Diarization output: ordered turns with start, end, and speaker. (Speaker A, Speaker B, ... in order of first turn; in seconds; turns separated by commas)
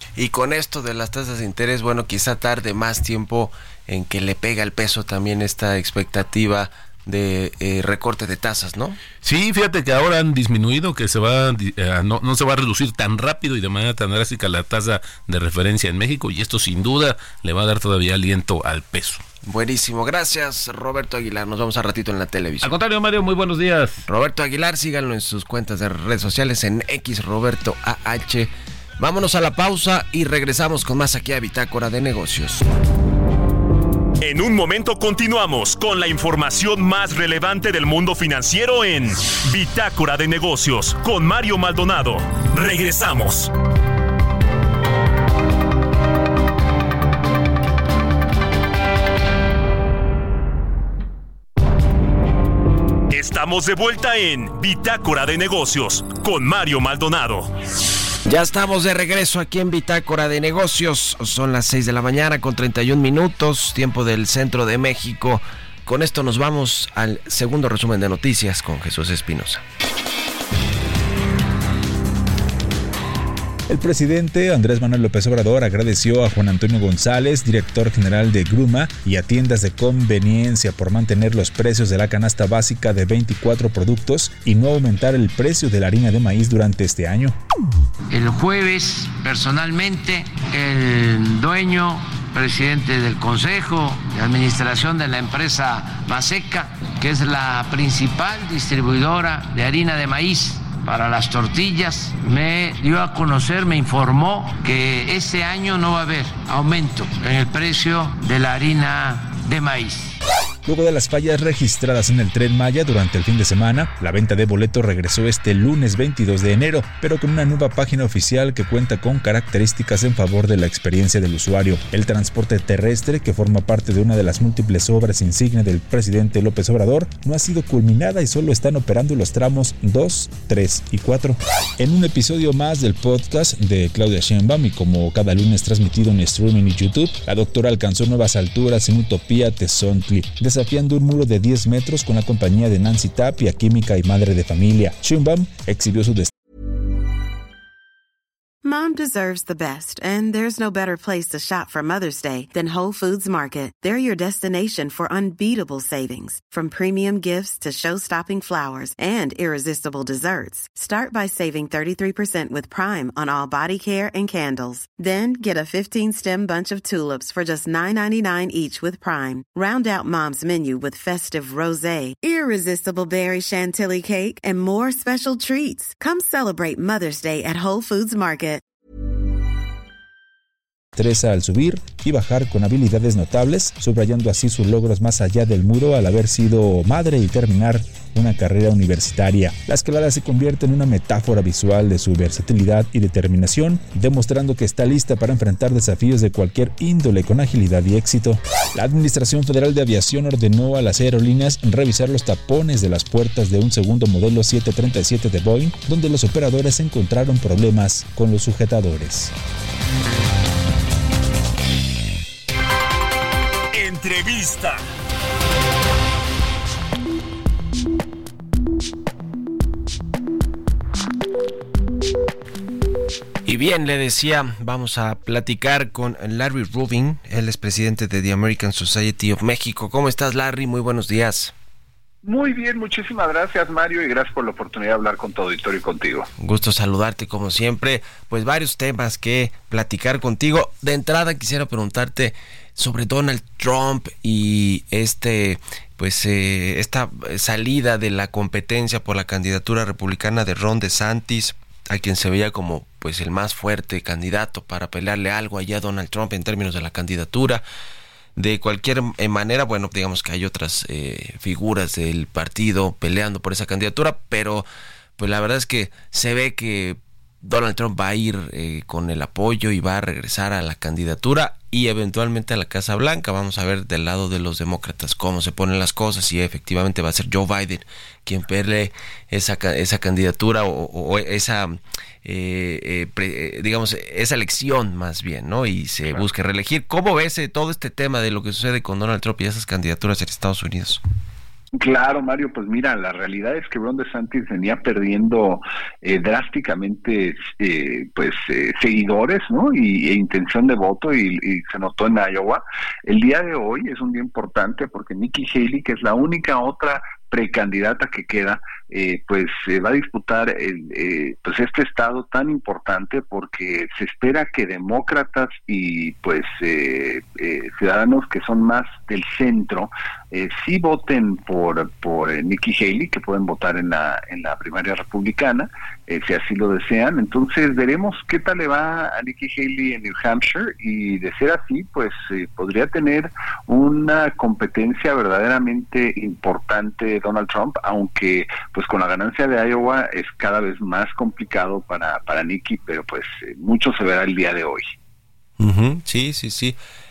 Speaker A: 0.1-9.0, Speaker B: 9.2-19.2, Speaker A: 19.4-22.7, Speaker B: 22.6-24.1, Speaker A: 24.1-32.6, Speaker C: 34.2-43.5, Speaker C: 53.1-57.5, Speaker A: 58.2-69.6, Speaker D: 73.7-87.4, Speaker E: 88.1-110.2, Speaker D: 110.7-146.3, Speaker F: 148.6-178.6, Speaker D: 180.9-209.3, Speaker C: 213.7-214.8, Speaker A: 223.4-231.5, Speaker G: 232.2-236.3, Speaker A: 236.4-257.6, Speaker A: 258.4-291.0, Speaker G: 291.8-344.9, Speaker A: 345.6-346.8